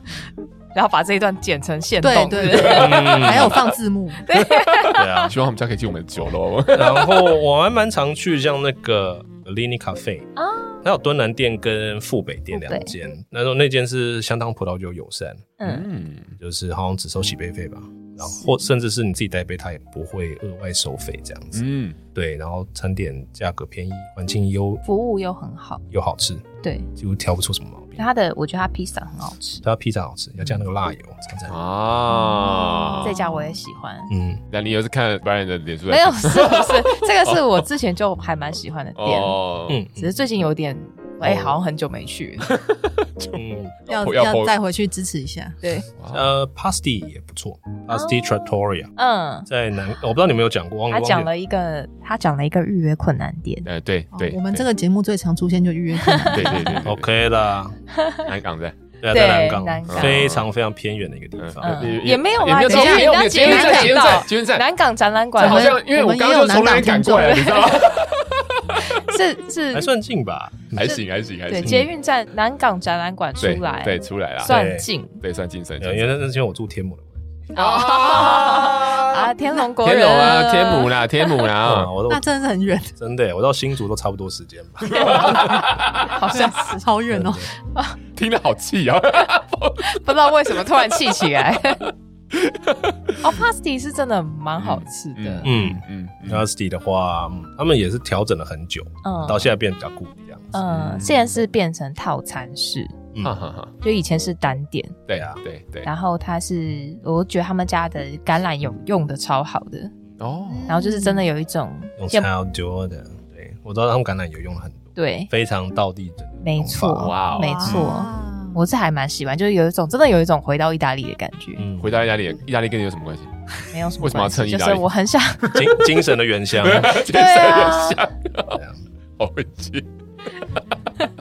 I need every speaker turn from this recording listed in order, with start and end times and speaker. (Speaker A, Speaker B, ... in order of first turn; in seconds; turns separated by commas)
Speaker A: 0.7-3.1, Speaker B: 2.0-4.3, Speaker C: 2.4-3.6, Speaker D: 2.7-3.6, Speaker A: 4.2-5.3, Speaker C: 4.8-7.2, Speaker D: 4.9-5.4, Speaker D: 6.7-10.3, Speaker A: 10.4-10.8, Speaker D: 10.8-15.5, Speaker A: 12.5-12.9, Speaker A: 15.6-15.9, Speaker C: 15.6-16.4, Speaker D: 16.4-21.6, Speaker C: 21.5-22.0, Speaker D: 22.1-24.8, Speaker A: 24.8-25.8, Speaker D: 25.9-28.1, Speaker A: 26.6-26.9, Speaker A: 28.0-29.6, Speaker D: 29.6-31.6, Speaker C: 31.5-33.2, Speaker B: 32.1-33.5, Speaker A: 33.0-34.1, Speaker D: 34.1-34.4, Speaker C: 34.5-37.4, Speaker A: 35.9-39.4, Speaker C: 39.0-39.8, Speaker D: 39.7-40.1, Speaker A: 39.9-42.5, Speaker D: 41.2-41.6, Speaker C: 42.5-44.5, Speaker D: 43.3-43.8, Speaker B: 43.9-45.6, Speaker C: 46.0-46.3, Speaker D: 46.1-48.9, Speaker A: 47.9-48.2, Speaker A: 49.0-49.5, Speaker D: 49.5-51.3, Speaker A: 50.9-53.7, Speaker C: 53.6-54.7, Speaker B: 54.1-56.7, Speaker A: 56.0-56.8, Speaker C: 56.3-57.1, Speaker D: 56.8-57.8, Speaker A: 58.0-58.3, Speaker C: 58.2-58.8, Speaker D: 59.0-62.0, Speaker A: 59.1-60.3, Speaker C: 59.9-60.5, Speaker C: 61.4-64.7, Speaker A: 61.6-65.8, Speaker B: 62.6-64.2, Speaker C: 65.4-68.8, Speaker B: 65.4-67.6, Speaker A: 67.1-67.9, Speaker A: 68.8-69.9, Speaker D: 69.7-71.0, Speaker C: 70.7-71.8, Speaker A: 71.5-75.2, Speaker D: 71.6-71.9, Speaker C: 73.4-74.6, Speaker D: 74.4-74.9, Speaker C: 75.2-76.1, Speaker D: 75.8-77.2, Speaker A: 77.5-81.0, Speaker C: 77.5-81.9, Speaker D: 81.6-82.2, Speaker B: 82.1-82.9, Speaker D: 83.0-85.5, Speaker C: 84.8-86.2, Speaker A: 85.0-86.8, Speaker B: 85.2-85.5, Speaker B: 86.3-87.5, Speaker D: 87.1-87.5, Speaker A: 87.7-88.0, Speaker C: 88.2-90.0, Speaker A: 89.8-91.9, Speaker C: 92.3-93.4, Speaker A: 93.2-95.5, Speaker C: 94.6-96.5, Speaker D: 95.4-100.5, Speaker A: 99.0-99.5, Speaker A: 100.5-102.9, Speaker C: 100.7-101.3, Speaker C: 103.2-103.7, Speaker A: 103.8-105.0, Speaker C: 105.1-105.9, Speaker D: 105.1-105.4, Speaker A: 105.8-109.9, Speaker C: 110.2-110.7, Speaker B: 110.5-111.3, Speaker A: 110.7-112.3, Speaker D: 112.0-117.2, Speaker A: 115.0-115.3, Speaker A: 116.4-121.7, Speaker C: 117.0-117.9, Speaker B: 117.3-118.6, Speaker D: 121.6-122.0, Speaker C: 121.8-123.3, Speaker A: 123.6-125.5, Speaker C: 124.0-124.9, Speaker C: 125.5-125.8, Speaker D: 125.5-127.0, Speaker C: 126.6-128.6, Speaker A: 126.8-128.0, Speaker D: 128.5-128.8, Speaker C: 129.2-129.9